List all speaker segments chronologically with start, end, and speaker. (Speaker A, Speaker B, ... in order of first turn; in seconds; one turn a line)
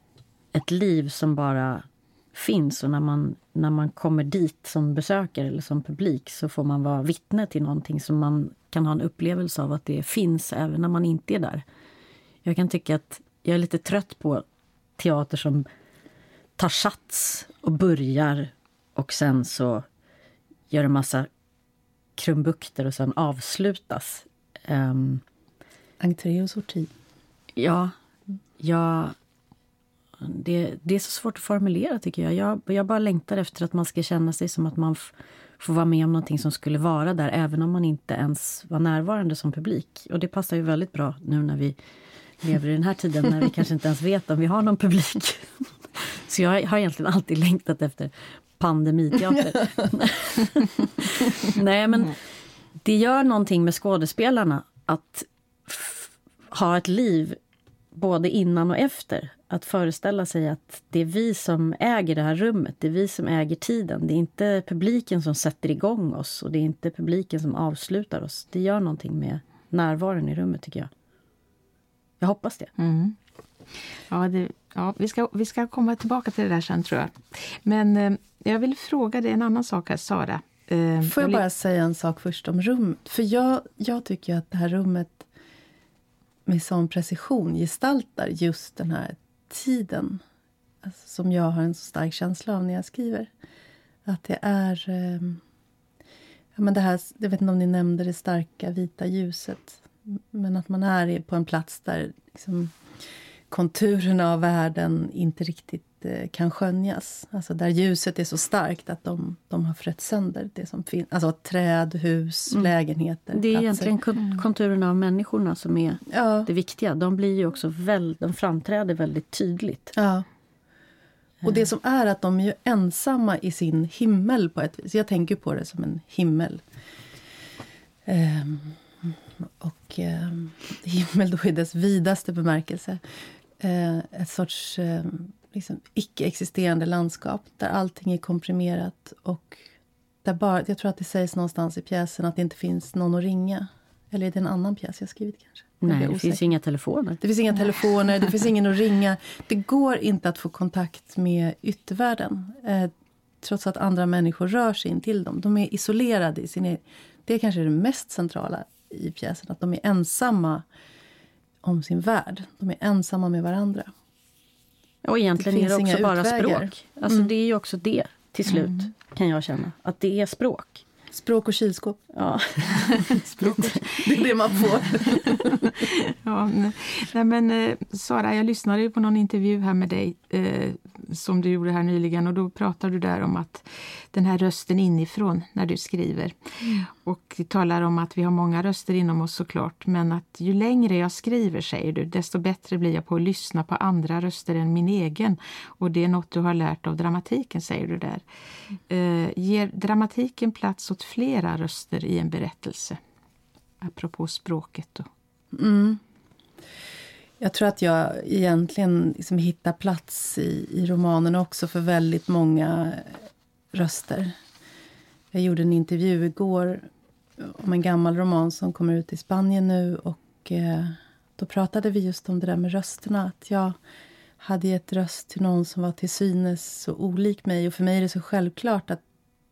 Speaker A: 0.5-11.6
Speaker A: 12.4-14.4
Speaker A: 15.0-15.7
Speaker A: 16.6-19.9
Speaker A: 20.7-21.3
Speaker A: 22.1-25.2
Speaker B: 26.0-26.9
Speaker A: 27.6-27.9
Speaker A: 28.6-29.1
Speaker A: 30.2-41.8
Speaker A: 42.4-52.1
Speaker A: 52.8-57.4
Speaker A: 57.9-70.9
Speaker A: 72.2-72.7
Speaker C: 72.8-73.2
Speaker C: 74.1-81.4
Speaker B: 81.0-85.3
Speaker B: 86.5-90.2
Speaker B: 90.8-93.3
Speaker B: 94.0-95.4
Speaker B: 96.5-102.7
Speaker B: 103.5-113.9
Speaker A: 113.3-119.9
Speaker B: 116.1-116.5
Speaker B: 120.0-120.2
Speaker B: 121.4-126.6
Speaker B: 128.1-133.0
Speaker B: 133.6-139.6
Speaker B: 140.2-146.5
Speaker A: 145.8-147.2
Speaker B: 147.2-160.6
Speaker B: 161.6-163.9
Speaker A: 165.0-170.8
Speaker B: 165.4-167.3
Speaker C: 168.5-168.8
Speaker B: 171.1-172.0
Speaker A: 172.1-173.8
Speaker C: 173.0-173.8
Speaker B: 173.8-175.7
Speaker C: 175.3-198.2
Speaker C: 198.9-203.0
Speaker C: 203.8-205.1
Speaker B: 205.5-206.0
Speaker B: 207.4-214.3
Speaker B: 215.3-216.9
Speaker B: 217.4-223.8
Speaker B: 224.4-229.0